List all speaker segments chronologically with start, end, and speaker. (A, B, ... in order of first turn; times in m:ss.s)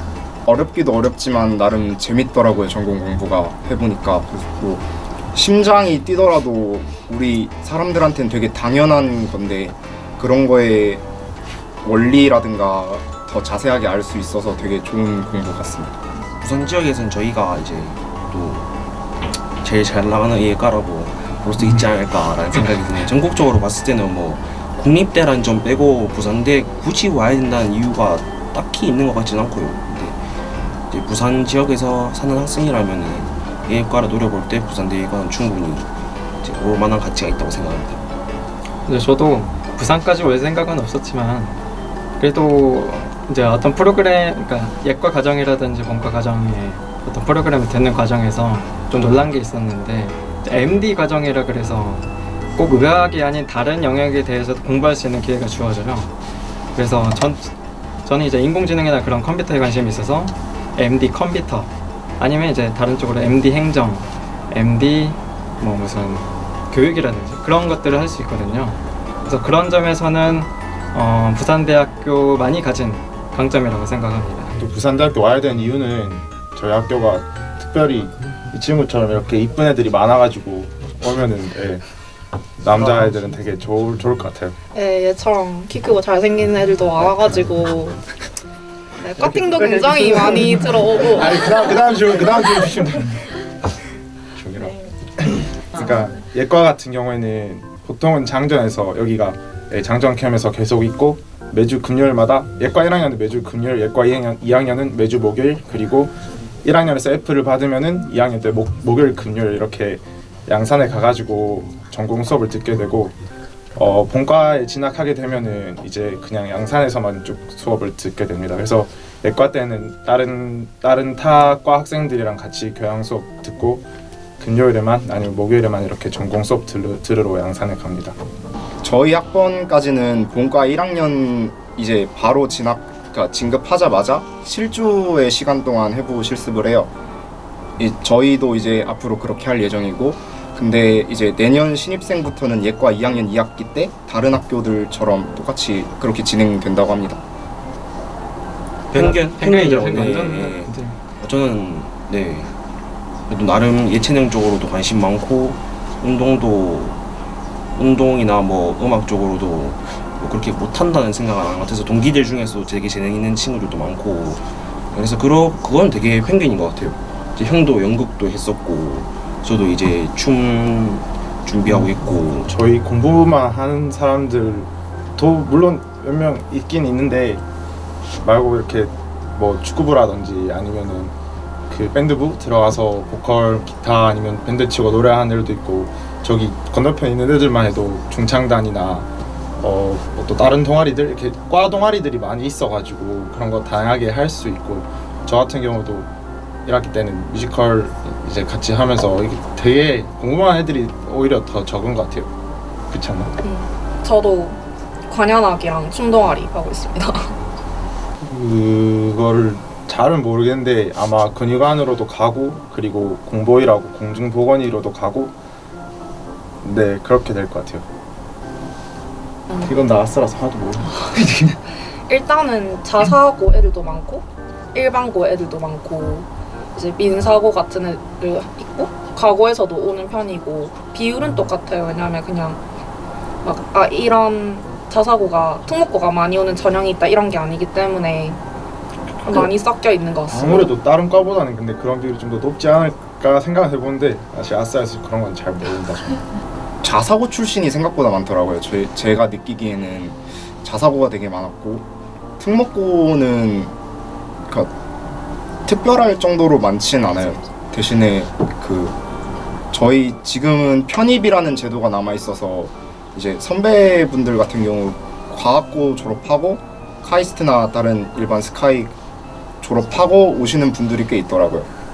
0:00.4-0:11.0 A
0:11.8-0:16.0 A
0:16.4-0:18.7 B
0:19.4-0:30.3 B
0:30.9-0:35.9 B
0:36.4-0:38.0 B
0:38.8-0:41.6 C
0:42.2-0:56.1 C
0:56.7-0:57.5 C
0:58.0-1:14.5 C
1:14.5-1:21.8 D
1:22.6-1:24.6 D
1:24.7-1:28.0 E
1:29.0-1:31.4 E
1:29.2-1:33.4 D
1:34.3-1:53.1 D
1:53.8-2:03.8 D
2:04.4-2:08.2 D
2:08.8-2:16.9 A
2:17.8-2:27.2 A
2:28.9-2:31.0 C
2:28.9-2:32.5 B
2:33.3-2:37.0 B
2:37.7-2:52.5 B
2:52.4-2:57.4 D
2:58.2-3:01.1 D
3:01.7-3:16.1 D
3:16.6-3:22.3 D
3:22.9-3:23.3 D
3:23.4-3:27.3 E
3:28.2-3:35.3 D
3:36.6-3:37.9 D
3:39.6-3:41.6 D
3:42.1-3:52.6 E
3:53.4-3:58.4 E
3:59.2-4:00.7 E
4:00.3-4:06.2 D
4:06.8-4:11.8 A
4:12.4-4:13.7 A
4:15.6-4:19.0 A
4:19.7-4:28.9 A
4:29.6-4:31.7 A